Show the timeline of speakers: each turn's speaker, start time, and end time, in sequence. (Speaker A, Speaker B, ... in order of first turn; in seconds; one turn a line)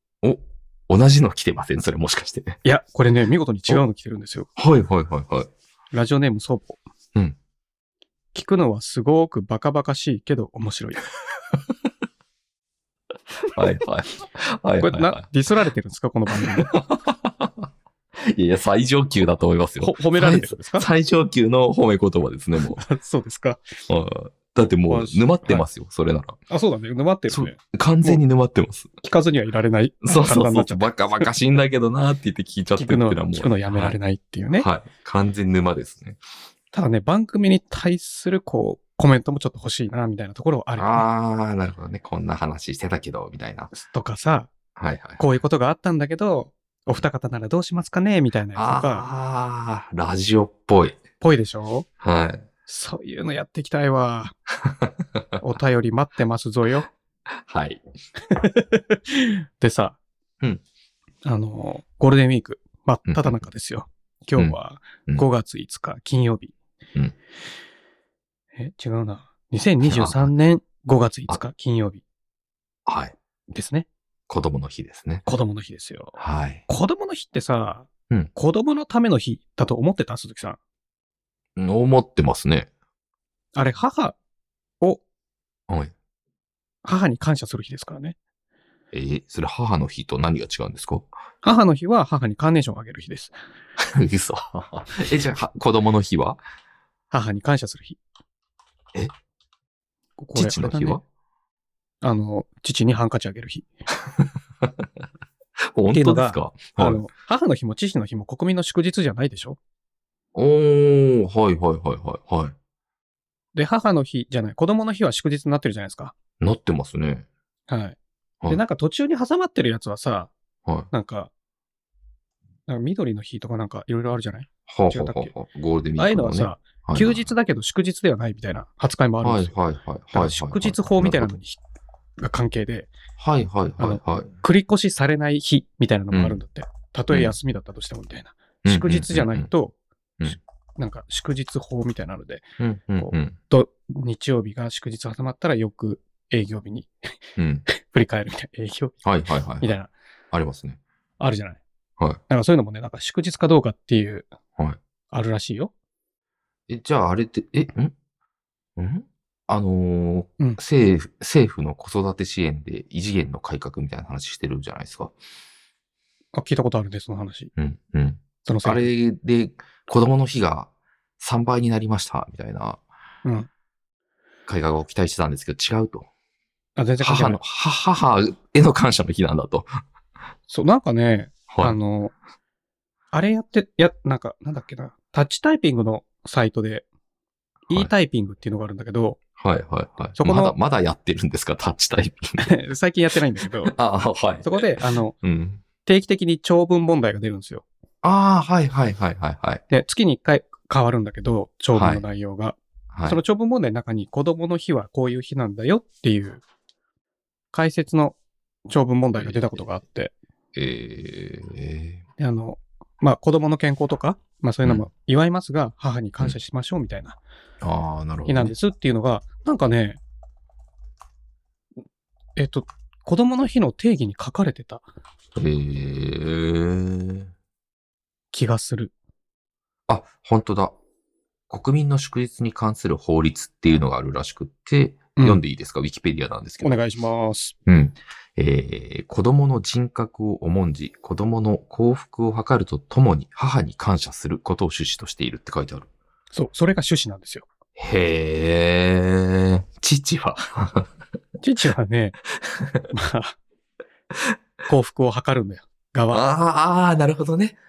Speaker A: 0.2-2.6
Speaker B: 2.6-4.5
Speaker A: 4.6-5.5
Speaker B: 5.9-6.8
Speaker B: 8.3-11.0
Speaker A: 13.4-15.3
Speaker B: 14.8-16.7
Speaker A: 16.4-17.7
Speaker A: 18.2-22.8
Speaker B: 19.8-20.9
Speaker B: 22.8-23.6
Speaker A: 23.9-26.4
Speaker B: 24.9-25.7
Speaker B: 26.5-28.2
Speaker A: 27.3-28.9
Speaker B: 29.0-31.3
Speaker A: 30.0-34.0
Speaker B: 32.8-34.7
Speaker A: 34.6-36.2
Speaker B: 36.7-41.1
Speaker A: 40.8-43.7
Speaker B: 43.7-44.5
Speaker A: 44.8-45.2
Speaker B: 45.2-49.1
Speaker A: 48.5-51.0
Speaker B: 51.2-51.9
Speaker A: 52.0-52.5
Speaker B: 52.7-54.4
Speaker A: 54.6-55.4
Speaker B: 55.4-56.9
Speaker A: 57.4-57.8
Speaker B: 58.2-60.0
Speaker B: 61.2-66.5
Speaker A: 63.1-63.4
Speaker B: 68.6-72.0
Speaker A: 69.8-70.3
Speaker A: 72.9-73.2
Speaker B: 73.5-73.9
Speaker A: 74.3-75.3
Speaker B: 75.3-80.6
Speaker A: 76.2-76.6
Speaker A: 81.6-82.7
Speaker B: 83.5-84.2
Speaker A: 85.7-85.9
Speaker B: 86.8-88.2
Speaker A: 88.9-91.1
Speaker B: 91.4-93.4
Speaker A: 93.8-96.4
Speaker B: 97.1-98.0
Speaker B: 100.2-101.0
Speaker A: 100.3-101.0
Speaker B: 102.0-103.7
Speaker A: 104.2-104.9
Speaker A: 105.7-107.0
Speaker B: 105.9-109.6
Speaker A: 110.3-112.5
Speaker B: 113.5-116.2
Speaker A: 116.4-117.3
Speaker B: 117.7-118.0
Speaker B: 118.5-120.3
Speaker B: 120.9-121.3
Speaker B: 122.7-125.3
Speaker A: 124.7-127.3
Speaker B: 126.0-129.6
Speaker A: 129.2-131.4
Speaker B: 130.1-131.6
Speaker B: 132.2-132.9
Speaker A: 133.2-134.3
Speaker B: 133.8-139.8
Speaker A: 136.1-136.4
Speaker A: 138.7-139.5
Speaker B: 140.3-142.4
Speaker A: 142.6-143.4
Speaker B: 143.0-146.9
Speaker A: 147.4-147.7
Speaker B: 147.7-149.0
Speaker A: 149.0-149.7
Speaker B: 149.6-149.9
Speaker A: 150.3-150.8
Speaker B: 151.2-151.6
Speaker B: 152.3-154.3
Speaker B: 155.1-155.7
Speaker A: 156.7-157.9
Speaker A: 158.8-165.1
Speaker B: 166.3-167.5
Speaker A: 167.6-172.8
Speaker B: 168.4-168.9
Speaker B: 173.2-173.5
Speaker A: 174.5-176.1
Speaker B: 176.8-177.4
Speaker A: 177.0-179.7
Speaker B: 180.5-182.2
Speaker A: 181.5-181.8
Speaker B: 183.1-186.9
Speaker B: 187.7-189.2
Speaker A: 189.4-192.5
Speaker B: 190.2-190.6
Speaker B: 192.4-193.8
Speaker A: 193.7-195.6
Speaker B: 194.4-195.2
Speaker B: 195.8-197.7
Speaker A: 198.0-199.6
Speaker B: 199.7-206.4
Speaker A: 201.7-202.0
Speaker A: 202.9-203.2
Speaker B: 207.5-208.2
Speaker B: 208.7-210.1
Speaker A: 209.2-209.6
Speaker A: 210.5-212.0
Speaker B: 212.2-217.2
Speaker A: 217.6-218.5
Speaker B: 218.3-220.0
Speaker B: 222.4-224.8
Speaker A: 225.3-227.3
Speaker B: 228.3-228.9
Speaker A: 229.9-230.8
Speaker A: 231.5-236.8
Speaker B: 235.2-235.4
Speaker B: 236.6-237.6
Speaker A: 237.7-245.9
Speaker B: 246.3-247.5
Speaker A: 247.8-250.9
Speaker B: 251.4-252.2
Speaker A: 252.4-252.9
Speaker B: 252.9-253.4
Speaker B: 254.7-256.2
Speaker A: 256.1-257.6